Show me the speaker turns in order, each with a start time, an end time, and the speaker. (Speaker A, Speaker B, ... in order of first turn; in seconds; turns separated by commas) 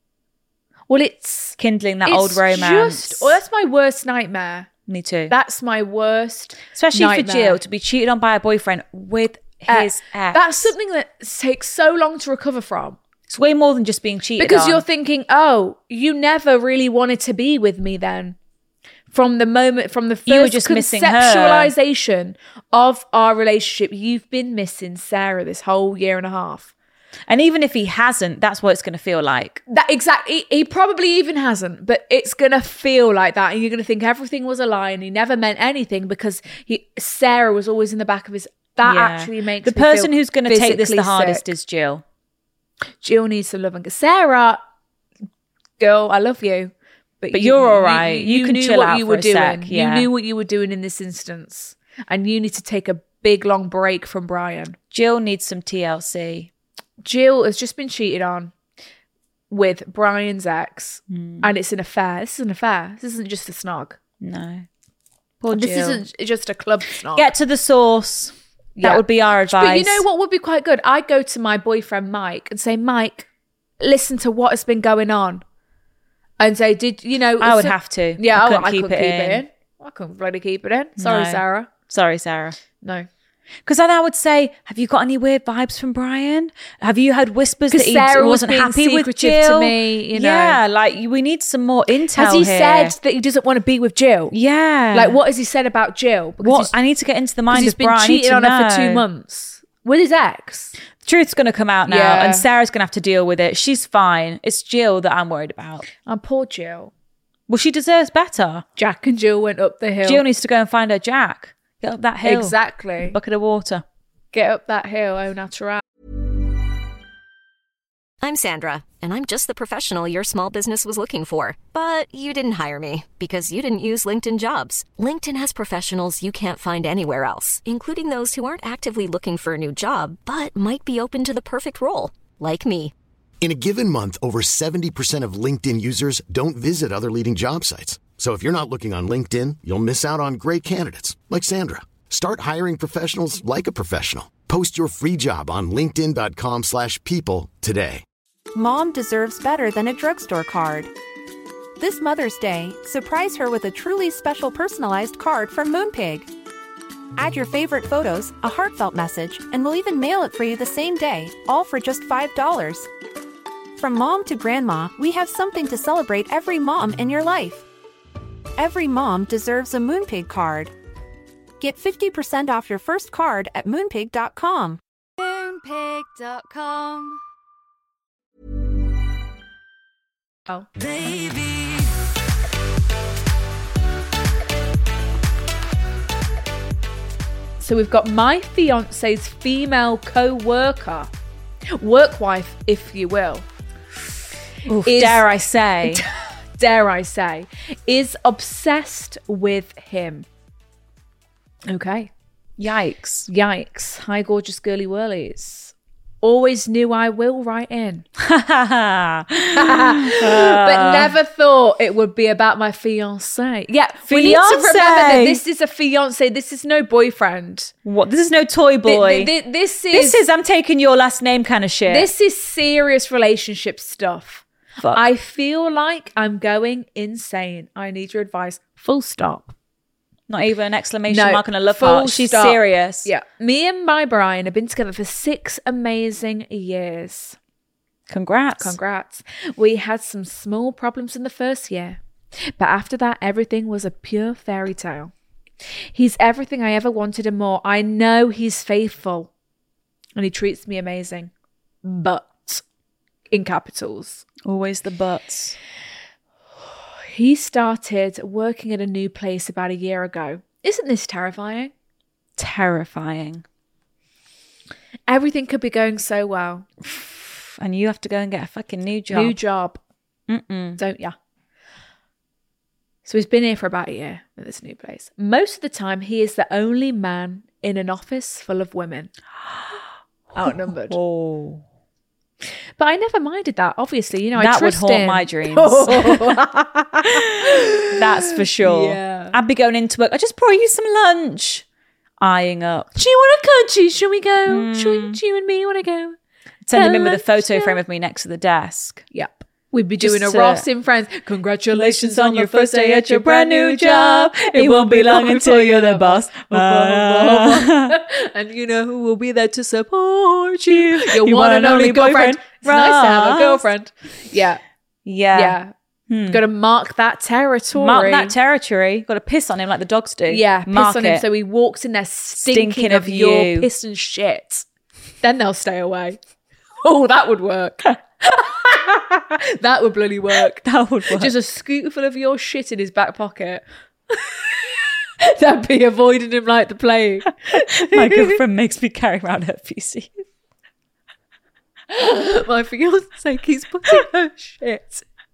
Speaker A: 0.9-4.7, Speaker B: 1.6-3.4, Speaker B: 4.9-5.3, Speaker A: 5.3-7.6, Speaker B: 6.7-10.7, Speaker A: 9.7-13.0, Speaker B: 13.3-14.8, Speaker A: 14.4-18.4, Speaker A: 19.1-26.7, Speaker B: 20.3-21.7, Speaker B: 27.3-29.6, Speaker A: 29.7-41.4, Speaker B: 38.8-42.0, Speaker A: 43.0-44.6, Speaker A: 45.8-54.8, Speaker B: 47.3-50.1, Speaker B: 54.9-56.5, Speaker A: 57.0-58.5, Speaker A: 59.5-64.0, Speaker B: 61.1-61.5, Speaker B: 64.2-64.7, Speaker B: 65.4-66.0, Speaker A: 65.5-67.3, Speaker B: 67.1-70.0, Speaker A: 68.8-73.3, Speaker A: 73.8-75.4, Speaker A: 76.4-81.7, Speaker B: 77.4-79.4, Speaker B: 81.0-82.6, Speaker A: 82.8-83.1, Speaker B: 83.7-92.9, Speaker A: 87.7-90.6, Speaker A: 92.1-94.3, Speaker B: 94.3-95.2, Speaker A: 94.9-96.7, Speaker B: 96.4-99.0, Speaker A: 97.5-100.7, Speaker B: 101.0-105.9, Speaker A: 101.9-102.5, Speaker A: 106.0-106.9, Speaker B: 107.5-108.6, Speaker A: 108.8-110.2, Speaker B: 110.0-113.8, Speaker A: 112.2-113.2, Speaker A: 114.3-115.8, Speaker C: 118.2-132.9, Speaker D: 133.4-148.0, Speaker E: 148.5-150.9, Speaker E: 151.8-156.3, Speaker E: 157.2-162.9, Speaker E: 163.8-167.7, Speaker E: 168.6-170.7, Speaker E: 171.6-174.8, Speaker F: 175.2-177.2, Speaker F: 180.8-181.9, Speaker A: 187.6-191.1, Speaker A: 191.8-193.4, Speaker B: 194.7-196.0, Speaker A: 194.8-195.2, Speaker A: 195.8-200.2, Speaker A: 201.7-202.1, Speaker B: 202.6-203.3, Speaker A: 203.3-208.1, Speaker B: 208.2-211.1, Speaker A: 209.5-217.7, Speaker B: 214.1-215.4, Speaker B: 217.8-219.3, Speaker A: 218.8-220.2, Speaker B: 219.9-222.1, Speaker A: 221.9-229.5, Speaker B: 230.3-233.1, Speaker A: 231.1-237.4, Speaker B: 238.1-238.8, Speaker A: 238.6-242.0, Speaker A: 242.6-245.1, Speaker A: 245.9-249.3, Speaker A: 250.2-251.3, Speaker A: 251.8-252.6, Speaker A: 253.3-254.2, Speaker B: 254.4-255.6, Speaker A: 257.1-261.7, Speaker B: 262.4-263.4, Speaker A: 265.1-266.7, Speaker B: 266.8-269.4, Speaker A: 269.1-269.8, Speaker B: 270.3-270.8, Speaker A: 270.8-271.1, Speaker A: 273.0-279.1, Speaker A: 280.3-281.0, Speaker B: 280.4-281.6, Speaker A: 282.8-289.4, Speaker B: 284.4-286.4, Speaker B: 287.0-291.6, Speaker B: 292.2-293.0, Speaker A: 292.9-296.1, Speaker B: 294.5-295.2, Speaker B: 296.6-299.0, Speaker A: 296.7-297.8, Speaker A: 299.1-314.6, Speaker B: 300.0-300.6, Speaker B: 301.7-307.9, Speaker B: 310.7-313.6, Speaker B: 315.1-315.6, Speaker A: 315.3-315.7, Speaker B: 316.1-316.4, Speaker A: 316.3-318.3, Speaker B: 317.7-321.2, Speaker A: 320.3-324.6, Speaker B: 322.4-323.7, Speaker A: 325.2-326.2, Speaker A: 326.8-338.4, Speaker B: 330.6-331.3, Speaker B: 337.6-340.2, Speaker A: 341.9-345.0